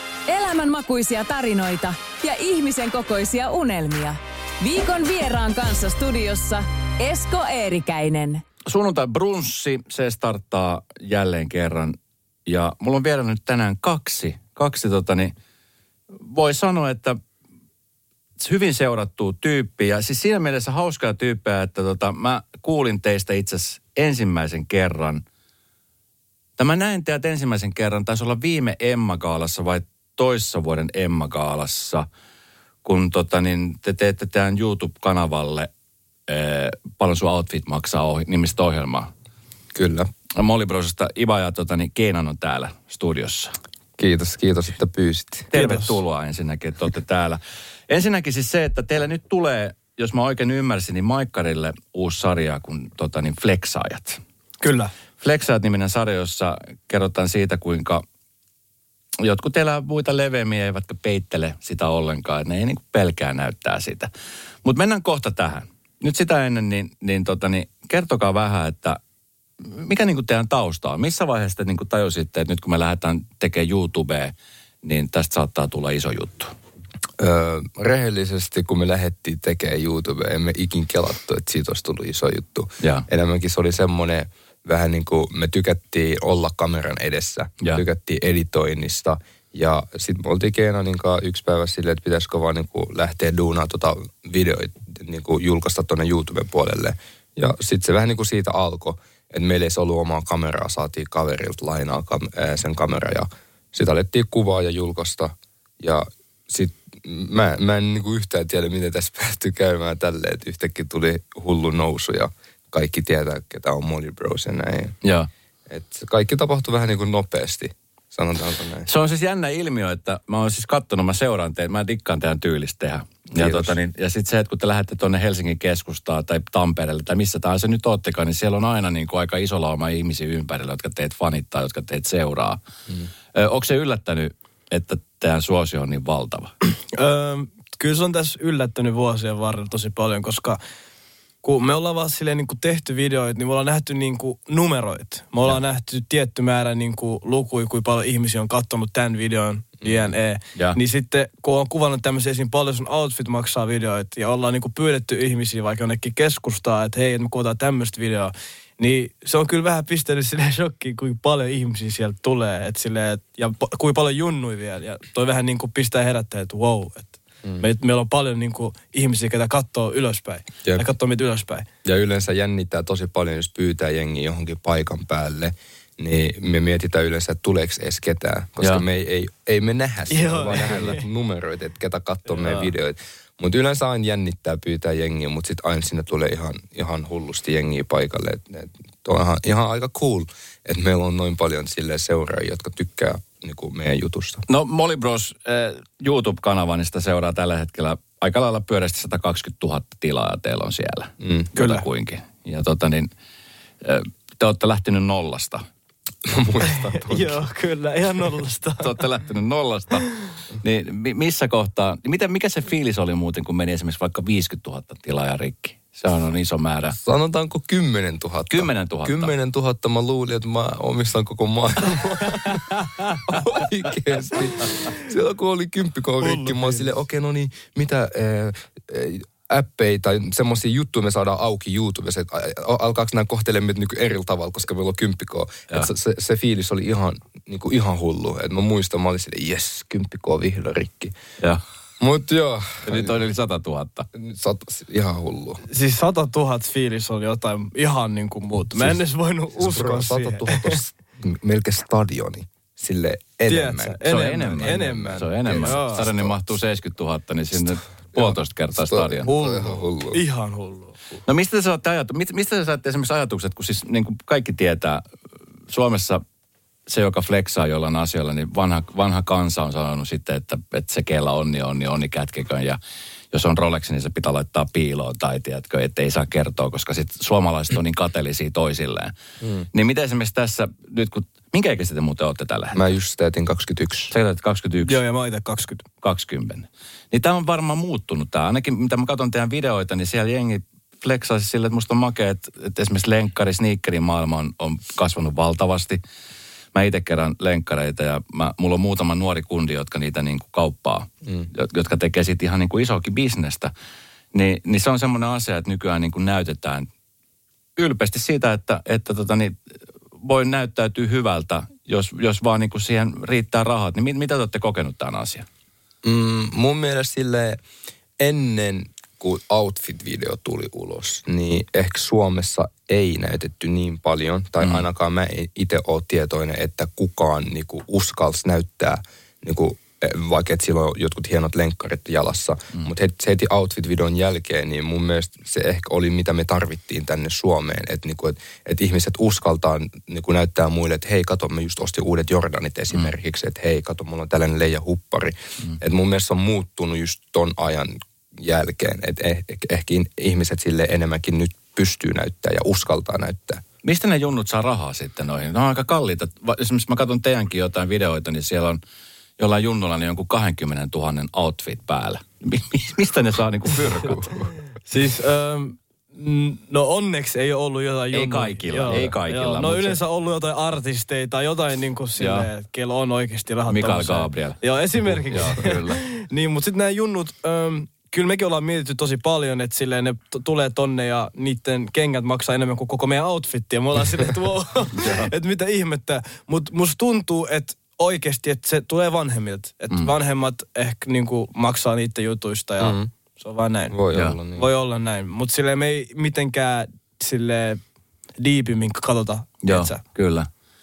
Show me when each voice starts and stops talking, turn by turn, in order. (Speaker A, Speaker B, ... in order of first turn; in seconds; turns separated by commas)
Speaker A: 0.3-8.4, Speaker B: 8.6-15.3, Speaker B: 16.2-17.2, Speaker B: 18.4-25.2, Speaker B: 26.6-32.0, Speaker B: 32.8-35.7, Speaker B: 36.3-39.1, Speaker C: 39.7-40.1, Speaker B: 40.4-43.5, Speaker C: 44.0-45.5, Speaker B: 45.5-54.2, Speaker D: 45.5-46.0, Speaker D: 54.6-54.9, Speaker B: 55.2-58.0, Speaker B: 59.2-64.1, Speaker B: 64.6-69.0, Speaker B: 69.6-76.5, Speaker C: 77.2-115.0, Speaker B: 82.8-83.0, Speaker B: 115.0-115.3, Speaker C: 115.7-118.9, Speaker B: 118.9-132.6, Speaker C: 123.3-123.8, Speaker B: 133.3-136.5, Speaker D: 136.9-140.6, Speaker D: 141.4-171.7, Speaker C: 171.8-194.4, Speaker D: 180.1-181.0, Speaker D: 182.3-182.7, Speaker B: 194.5-203.1, Speaker C: 201.2-201.5, Speaker D: 201.6-201.8, Speaker B: 203.8-205.6, Speaker C: 206.2-207.4, Speaker D: 206.6-209.0, Speaker B: 208.8-210.1, Speaker B: 210.6-217.0, Speaker C: 217.0-241.1, Speaker B: 218.5-219.3, Speaker D: 222.5-223.2, Speaker D: 226.2-226.9, Speaker C: 242.0-243.1, Speaker B: 242.8-244.1, Speaker C: 244.1-245.6, Speaker D: 245.7-250.8, Speaker C: 249.6-254.0, Speaker D: 253.5-256.0, Speaker B: 254.1-259.3, Speaker C: 254.6-256.4, Speaker C: 258.1-260.2, Speaker D: 259.2-261.0, Speaker B: 261.2-265.0, Speaker B: 265.7-266.2, Speaker B: 266.9-272.8, Speaker B: 273.3-279.1, Speaker C: 279.4-279.6, Speaker B: 279.7-282.8, Speaker C: 282.7-284.1, Speaker B: 284.1-285.0, Speaker D: 284.8-285.8, Speaker B: 286.0-296.0, Speaker B: 296.7-303.7, Speaker B: 304.3-306.9, Speaker B: 307.8-309.6, Speaker B: 310.2-315.4, Speaker C: 316.0-317.6, Speaker C: 318.2-353.6, Speaker B: 353.8-358.8, Speaker B: 359.4-364.4, Speaker D: 364.9-394.0, Speaker B: 368.1-370.0, Speaker B: 372.2-372.5, Speaker B: 373.7-374.6, Speaker B: 375.3-376.0, Speaker B: 385.0-385.3, Speaker C: 392.8-393.1, Speaker C: 393.9-394.7, Speaker B: 394.1-394.4, Speaker D: 394.5-397.8, Speaker D: 398.4-400.0, Speaker B: 399.6-400.5